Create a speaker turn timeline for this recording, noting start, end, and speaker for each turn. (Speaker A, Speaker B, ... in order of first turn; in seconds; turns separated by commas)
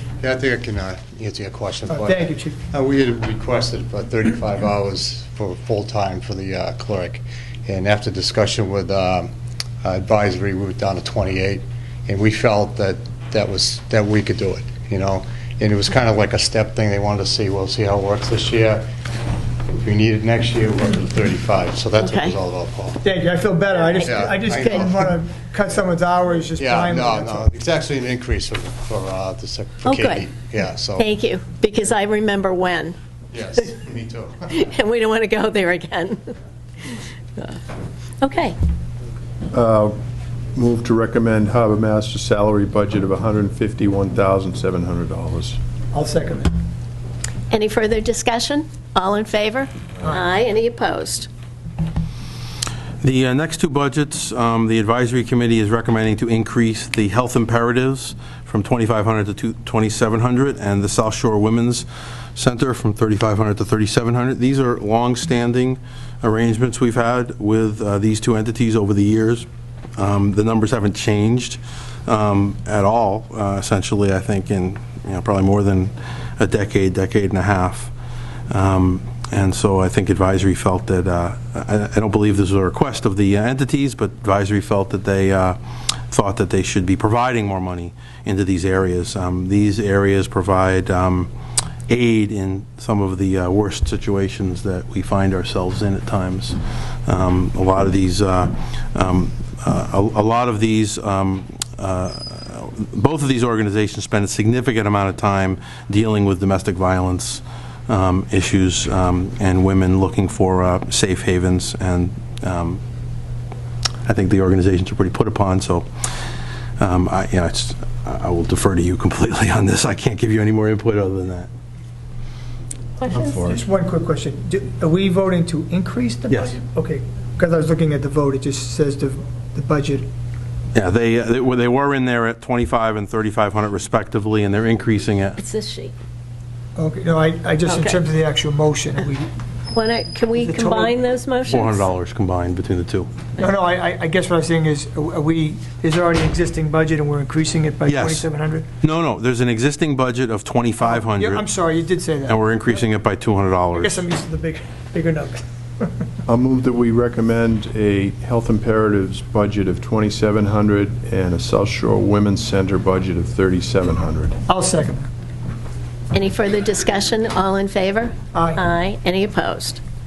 Speaker A: 0.2-9.3, Speaker B: 1.9-2.6, Speaker A: 9.8-18.9, Speaker A: 19.7-23.0, Speaker C: 22.0-22.4, Speaker B: 23.0-27.5, Speaker C: 23.9-24.9, Speaker A: 24.0-25.1, Speaker A: 26.6-31.1, Speaker C: 29.8-30.3, Speaker C: 30.9-33.0, Speaker A: 33.3-34.4, Speaker C: 34.5-36.3, Speaker C: 36.8-37.6, Speaker C: 38.2-38.5, Speaker D: 39.5-40.0, Speaker D: 40.5-45.6, Speaker B: 45.9-46.5, Speaker C: 47.5-51.3, Speaker E: 53.0-77.9, Speaker E: 78.5-91.3, Speaker E: 91.9-112.8, Speaker E: 114.0-115.9, Speaker E: 116.8-121.5, Speaker C: 123.0-123.4, Speaker D: 123.1-123.6, Speaker B: 123.4-130.1, Speaker E: 126.3-126.5, Speaker E: 130.7-135.4, Speaker C: 135.4-135.9, Speaker B: 136.8-139.3, Speaker C: 137.7-138.0, Speaker C: 139.7-141.9, Speaker B: 140.3-140.9, Speaker E: 141.5-143.1, Speaker B: 143.4-148.7, Speaker E: 147.8-148.3, Speaker E: 148.8-151.4, Speaker B: 150.8-152.9, Speaker E: 152.3-154.0, Speaker B: 153.7-155.9, Speaker D: 156.3-164.4, Speaker B: 164.5-165.1, Speaker C: 166.1-169.8, Speaker B: 168.3-168.6